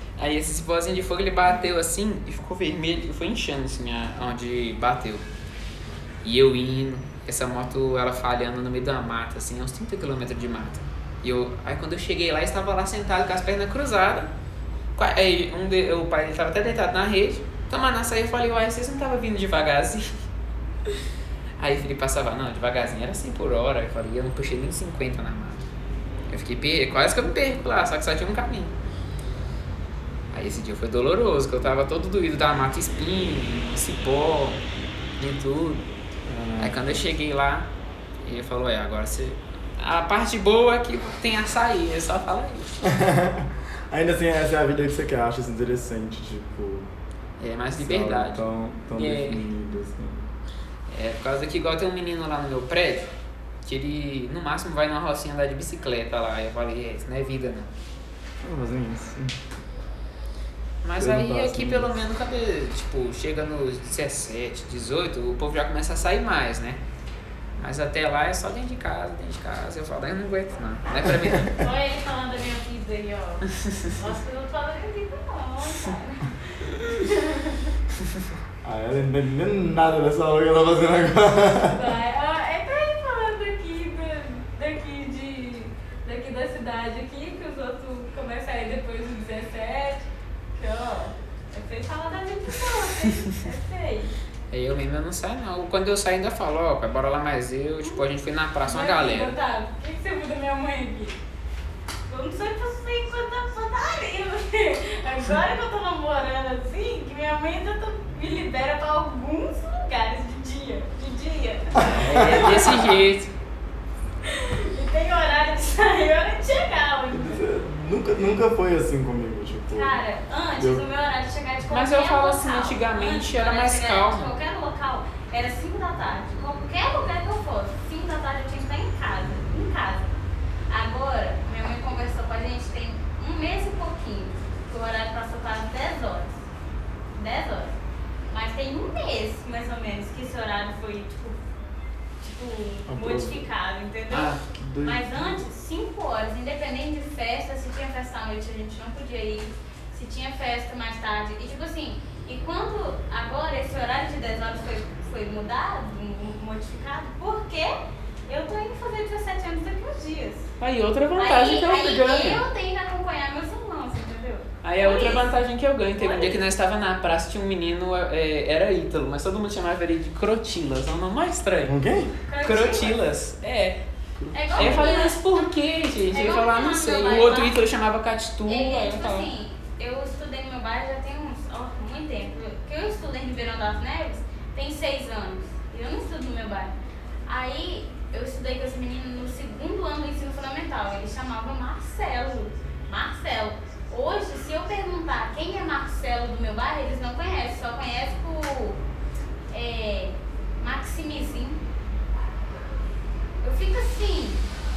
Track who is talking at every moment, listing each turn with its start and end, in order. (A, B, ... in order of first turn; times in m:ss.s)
0:00.2-0:05.3 A
0:06.2-0:14.3 A
0:15.0-0:20.2 A
0:21.6-0:25.6 A
0:26.3-0:28.7 A
0:30.3-0:34.6 A
0:35.2-0:35.8 A
0:36.3-0:36.8 B
0:36.6-0:37.7 A
0:38.2-0:42.8 A
0:42.8-0:46.9 B
0:47.4-0:49.5 A
0:47.8-0:50.3 B
0:50.9-0:53.1 A
0:53.6-0:57.7 A
0:58.4-0:59.4 B
1:00.8-1:06.8 A
1:01.0-1:02.0 B
1:07.6-1:11.6 A
1:11.0-1:11.4 B
1:11.6-1:17.7 C
1:13.6-1:13.9 A
1:18.6-1:21.9 B
1:21.7-1:34.1 C
1:34.5-1:39.4 A
1:38.6-1:41.2 C
1:42.1-1:52.8 C
1:51.8-1:52.9 B
1:51.9-1:53.3 A
1:54.2-1:57.4 C
1:57.1-2:00.0 B
1:59.7-2:10.2 C
2:00.6-2:00.8 B
2:01.7-2:04.3 A
2:10.7-2:16.4 C
2:17.2-2:17.8 C
2:18.3-2:21.4 C
2:22.2-2:37.8 C
2:22.9-2:23.5 B
2:24.1-2:24.4 A
2:24.5-2:25.2 B
2:38.3-2:40.5 C
2:40.6-2:42.4 A
2:41.2-2:45.3 C
2:44.6-2:51.8 A
2:46.0-2:46.4 C
2:51.7-2:52.2 B
2:52.2-2:53.0 C
2:52.4-2:53.8 A
2:54.2-2:54.9 B
2:54.3-2:55.5 C
2:54.5-2:59.3 A
2:56.1-2:57.6 C
2:58.5-3:06.7 C
3:07.3-3:18.8 C
3:19.5-3:21.6 C
3:23.4-3:24.4 C